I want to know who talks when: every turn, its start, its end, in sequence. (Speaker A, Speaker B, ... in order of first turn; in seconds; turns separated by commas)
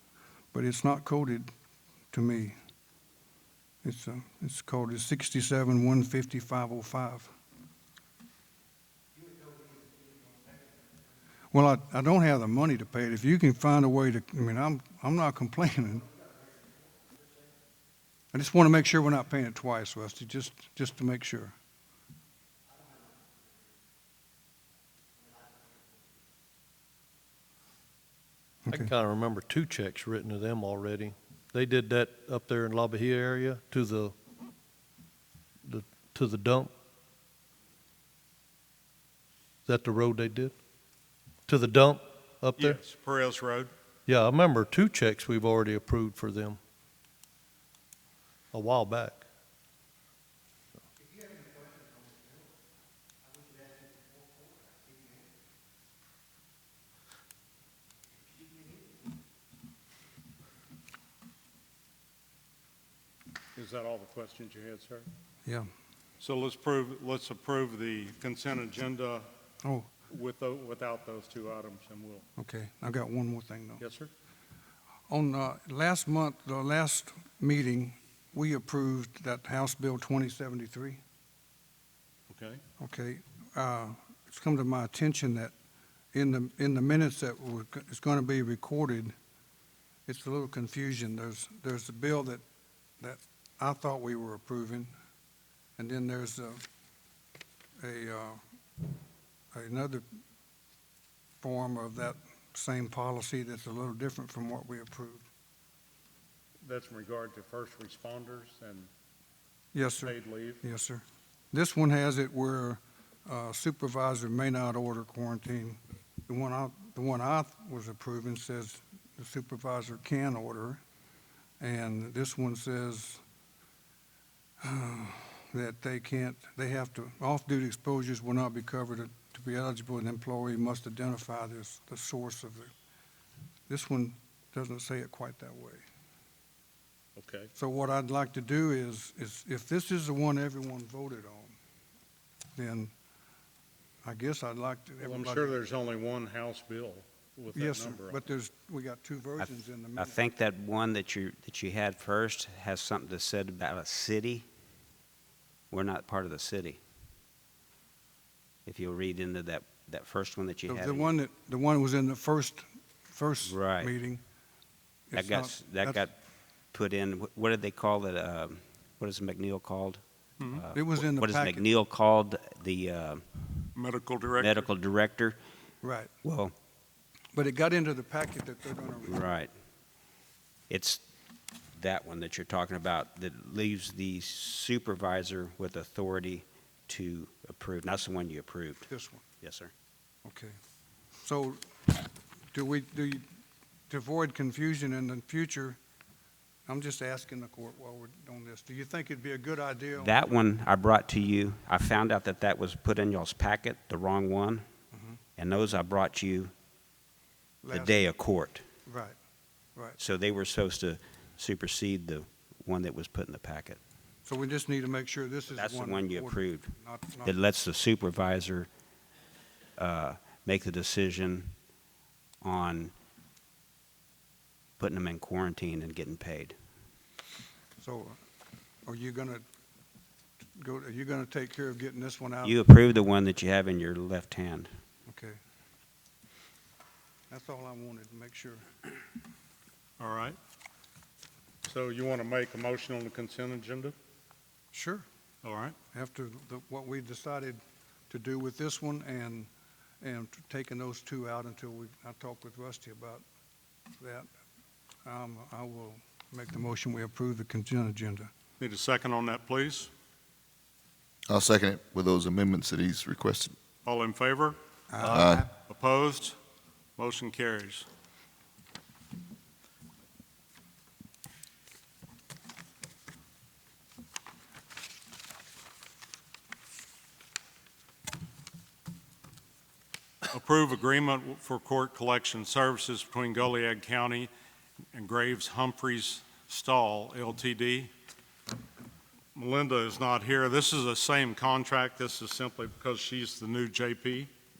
Speaker A: 0.5-1.5, Speaker A: 2.1-2.5, Speaker A: 3.8-7.3, Speaker A: 11.5-16.1, Speaker A: 18.3-21.5, Speaker A: 28.6-28.9, Speaker B: 28.7-34.1, Speaker B: 35.6-36.7, Speaker B: 39.6-40.5, Speaker B: 41.5-42.8, Speaker C: 42.6-43.7, Speaker B: 44.0-46.6, Speaker B: 48.5-49.2, Speaker C: 63.5-65.1, Speaker C: 66.2-69.3, Speaker A: 69.6-69.9, Speaker C: 70.1-72.2, Speaker A: 72.4-73.8, Speaker C: 73.8-74.1, Speaker A: 75.1-81.0, Speaker C: 82.3-82.6, Speaker A: 82.8-85.5, Speaker A: 86.1-89.1, Speaker A: 90.1-92.4, Speaker A: 93.0-94.9, Speaker A: 95.8-96.6, Speaker A: 97.8-98.4, Speaker A: 99.5-100.0, Speaker A: 101.4-105.3, Speaker C: 106.6-108.9, Speaker A: 109.7-120.8, Speaker C: 110.0-110.6, Speaker A: 121.6-123.2, Speaker A: 124.6-132.7, Speaker A: 133.7-135.8, Speaker C: 137.2-137.5, Speaker A: 137.6-141.6, Speaker A: 142.5-142.9, Speaker A: 144.0-145.6, Speaker C: 145.0-148.2, Speaker A: 147.5-150.2, Speaker D: 150.0-154.4, Speaker D: 155.7-156.8, Speaker D: 158.7-161.1, Speaker A: 160.7-164.2, Speaker D: 163.4-163.9, Speaker A: 165.1-166.1, Speaker D: 165.1-166.1, Speaker D: 166.7-173.3, Speaker A: 170.7-171.6, Speaker C: 173.7-174.7, Speaker D: 174.4-175.4, Speaker A: 175.8-176.1, Speaker D: 176.2-176.5, Speaker A: 177.3-179.2, Speaker D: 179.0-179.5, Speaker D: 180.7-181.0, Speaker D: 181.8-188.9, Speaker A: 188.9-189.2, Speaker D: 189.4-189.7, Speaker A: 190.2-190.6, Speaker A: 191.2-191.7, Speaker A: 192.5-193.2, Speaker A: 193.9-195.8, Speaker A: 196.7-200.2, Speaker D: 200.0-204.6, Speaker A: 204.9-205.2, Speaker D: 205.4-206.5, Speaker A: 207.6-208.0, Speaker D: 207.7-208.6, Speaker A: 208.9-209.2, Speaker D: 210.0-213.8, Speaker A: 214.2-217.3, Speaker D: 215.5-216.7, Speaker D: 217.2-218.7, Speaker D: 219.8-221.5, Speaker D: 222.4-222.9, Speaker D: 224.8-226.5, Speaker A: 227.8-228.2, Speaker A: 228.8-229.4, Speaker A: 230.6-232.6, Speaker D: 232.4-234.7, Speaker A: 235.1-235.4, Speaker A: 237.3-238.7, Speaker C: 240.0-240.4, Speaker C: 241.7-243.9, Speaker A: 244.7-245.1, Speaker C: 245.4-245.8, Speaker A: 245.9-249.5, Speaker A: 250.0-253.2, Speaker A: 254.0-254.3, Speaker A: 255.0-258.3, Speaker C: 258.6-259.9, Speaker E: 261.3-263.5, Speaker C: 263.8-264.6, Speaker A: 264.9-265.4, Speaker B: 265.0-265.4, Speaker E: 265.1-265.5, Speaker C: 265.6-266.4, Speaker C: 267.0-267.9, Speaker C: 280.3-284.3, Speaker C: 284.9-287.9, Speaker C: 289.3-294.3